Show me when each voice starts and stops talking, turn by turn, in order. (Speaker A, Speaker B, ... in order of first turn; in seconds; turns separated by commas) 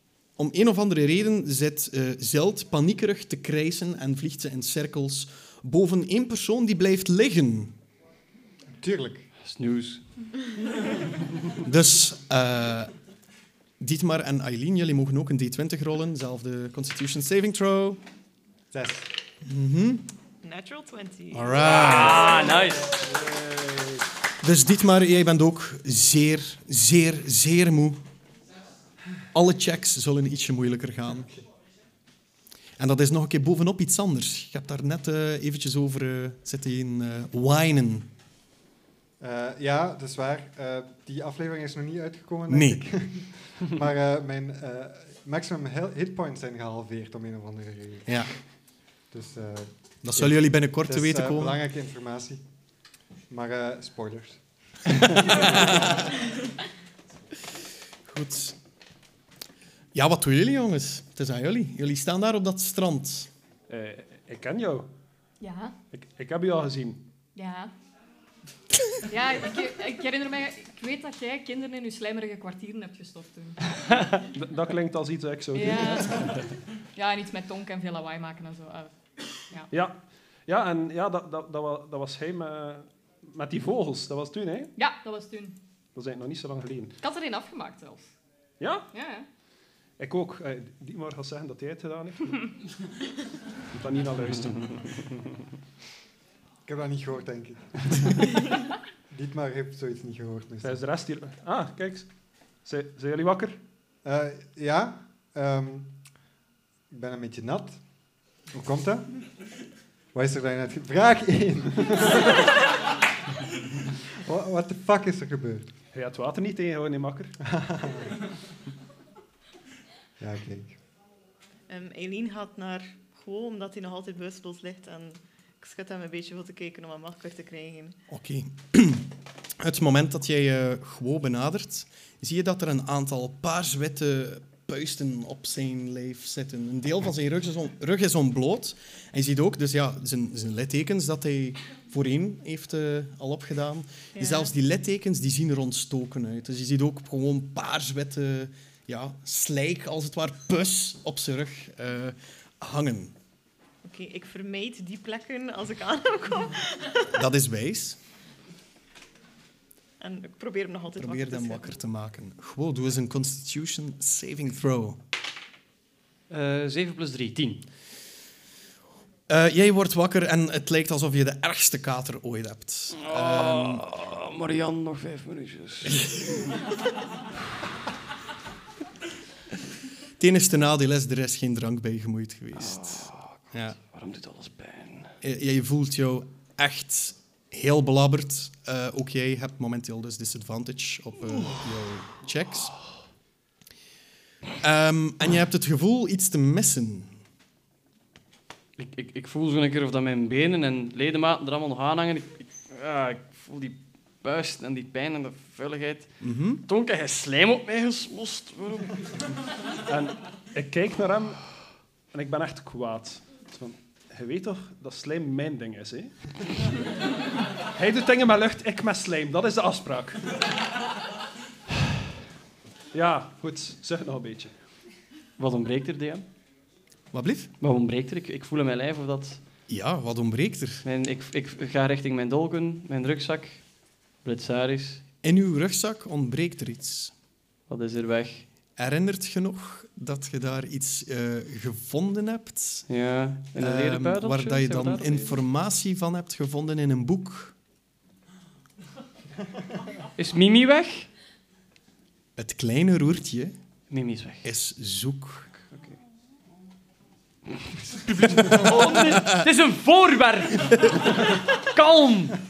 Speaker A: 0.4-7.8, Speaker B: 8.8-9.3, Speaker C: 9.4-10.0, Speaker A: 11.6-12.9, Speaker A: 13.8-18.0, Speaker B: 18.7-19.1, Speaker A: 19.4-20.1, Speaker D: 20.4-22.6, Speaker A: 21.3-22.4, Speaker C: 21.6-23.0, Speaker E: 22.9-24.0, Speaker A: 24.4-28.0, Speaker A: 29.3-31.3, Speaker A: 32.8-38.1, Speaker B: 39.2-48.2, Speaker A: 42.5-42.9, Speaker B: 49.1-52.4, Speaker A: 50.0-51.6, Speaker B: 53.3-56.0, Speaker A: 55.3-56.1, Speaker A: 58.1-58.6, Speaker A: 59.9-63.3, Speaker E: 63.7-64.9, Speaker F: 65.4-65.8, Speaker E: 65.9-67.0, Speaker F: 67.3-67.7, Speaker F: 69.0-73.6, Speaker E: 74.3-76.5, Speaker F: 75.5-76.4, Speaker F: 77.0-78.9, Speaker E: 79.7-84.7, Speaker F: 84.8-85.6, Speaker E: 86.0-87.0, Speaker F: 87.0-88.1, Speaker E: 88.6-88.9, Speaker F: 88.9-89.3, Speaker E: 90.0-92.5, Speaker E: 93.7-95.2, Speaker B: 96.7-98.3, Speaker B: 99.1-100.8, Speaker E: 100.6-102.1, Speaker E: 102.6-103.6, Speaker B: 104.0-106.0, Speaker B: 106.9-107.8, Speaker B: 108.5-109.1, Speaker B: 110.1-112.5, Speaker B: 114.2-115.7, Speaker E: 115.9-117.4, Speaker B: 117.5-118.2, Speaker B: 120.2-120.8, Speaker D: 121.7-128.0, Speaker A: 128.1-153.2, Speaker D: 144.2-144.5, Speaker D: 153.8-157.1, Speaker A: 157.1-158.0, Speaker D: 160.0-161.7, Speaker A: 161.0-165.0, Speaker C: 166.3-167.7, Speaker A: 169.3-173.8, Speaker C: 173.0-176.4, Speaker A: 175.9-176.2, Speaker A: 180.2-183.8, Speaker C: 182.6-185.1, Speaker A: 185.2-192.8, Speaker A: 194.6-197.1, Speaker C: 198.8-209.0, Speaker A: 206.2-206.6, Speaker E: 209.9-211.4, Speaker E: 212.1-216.1, Speaker E: 217.8-220.4, Speaker E: 222.9-224.6, Speaker C: 225.4-226.2, Speaker A: 227.1-227.5, Speaker C: 227.6-229.4, Speaker A: 229.7-230.8, Speaker C: 230.8-233.6, Speaker C: 234.2-235.0, Speaker A: 235.2-237.1, Speaker C: 237.7-238.4, Speaker A: 238.8-242.9, Speaker C: 242.9-245.4, Speaker A: 243.6-247.6, Speaker C: 250.2-251.1, Speaker A: 252.4-253.6, Speaker C: 253.9-254.5, Speaker A: 254.4-255.6, Speaker C: 257.9-262.4, Speaker A: 258.2-259.5